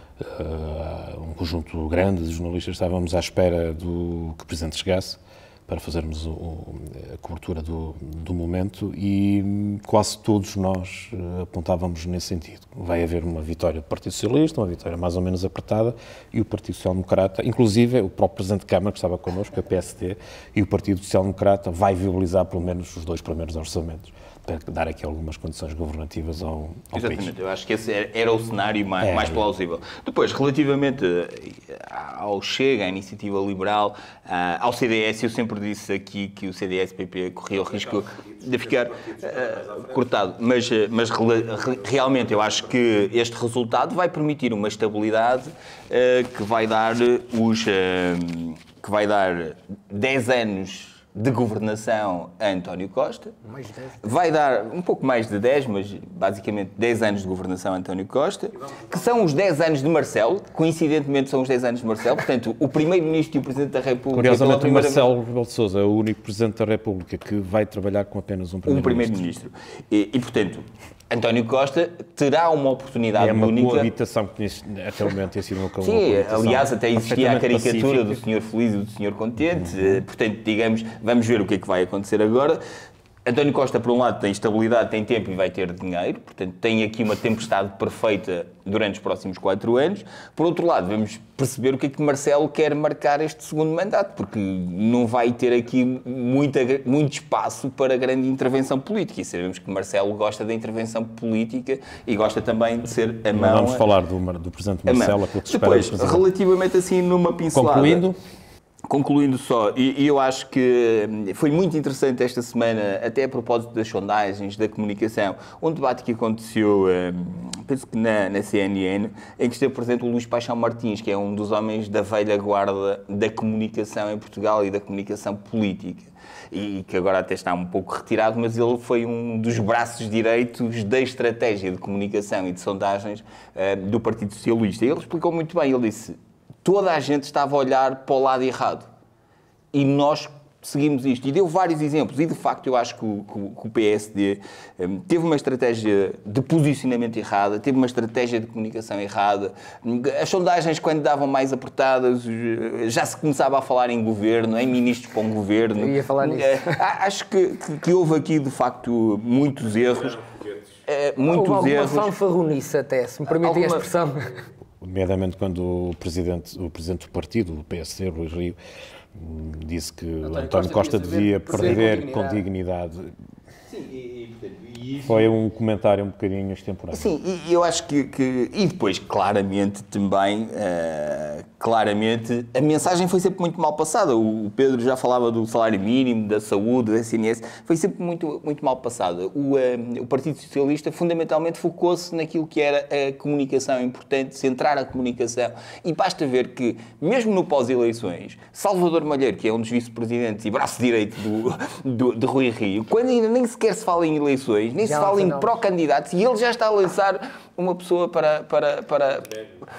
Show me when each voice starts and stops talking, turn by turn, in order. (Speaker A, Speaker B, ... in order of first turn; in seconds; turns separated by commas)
Speaker A: 0.2-27.3, Speaker B: 26.9-53.4, Speaker A: 29.0-29.4, Speaker C: 53.5-54.0, Speaker B: 54.0-65.1, Speaker A: 64.1-69.2, Speaker B: 68.7-73.9, Speaker A: 73.2-78.2, Speaker B: 75.8-82.6, Speaker A: 79.5-80.0, Speaker B: 83.3-103.9, Speaker A: 103.3-106.3, Speaker B: 104.9-108.0, Speaker A: 107.5-108.2, Speaker B: 108.9-138.9, Speaker B: 139.7-160.3, Speaker C: 155.8-156.8, Speaker B: 160.9-162.1, Speaker C: 161.2-164.2, Speaker A: 164.8-168.6, Speaker A: 169.2-173.2, Speaker C: 170.2-172.4, Speaker B: 173.7-175.3, Speaker A: 175.0-177.1, Speaker B: 176.9-209.5, Speaker C: 204.8-205.6